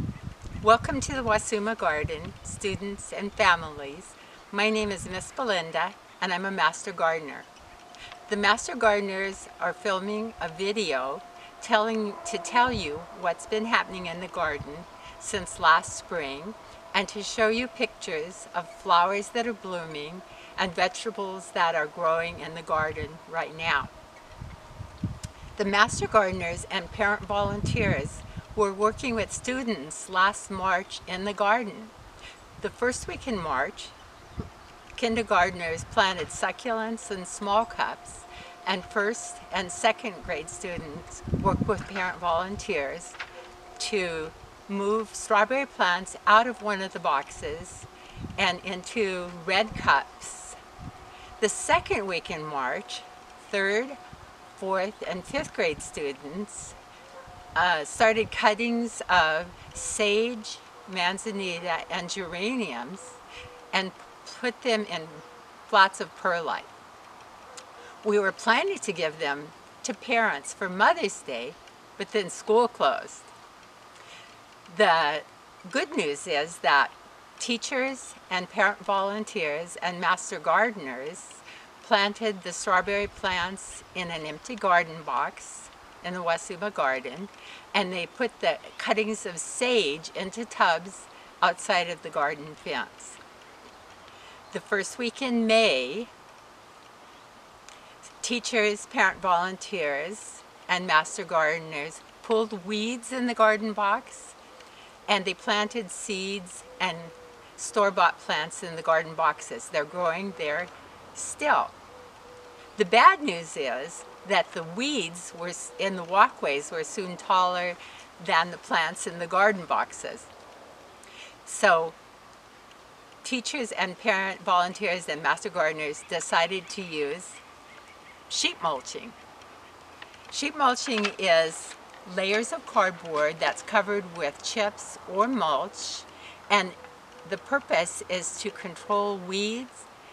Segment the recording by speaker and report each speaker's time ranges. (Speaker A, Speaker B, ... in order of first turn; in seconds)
Speaker A: 0.6-7.5, 8.3-23.9, 25.6-31.9, 32.6-33.9, 35.0-43.2, 43.8-50.6, 51.4-54.0, 54.5-56.8, 57.5-63.2, 63.7-66.7, 68.0-73.3, 74.7-93.2, 94.5-96.1, 98.2-104.3, 105.1-111.8, 112.8-120.3, 121.4-122.0, 123.2-127.4, 128.3-129.2, 130.3-139.8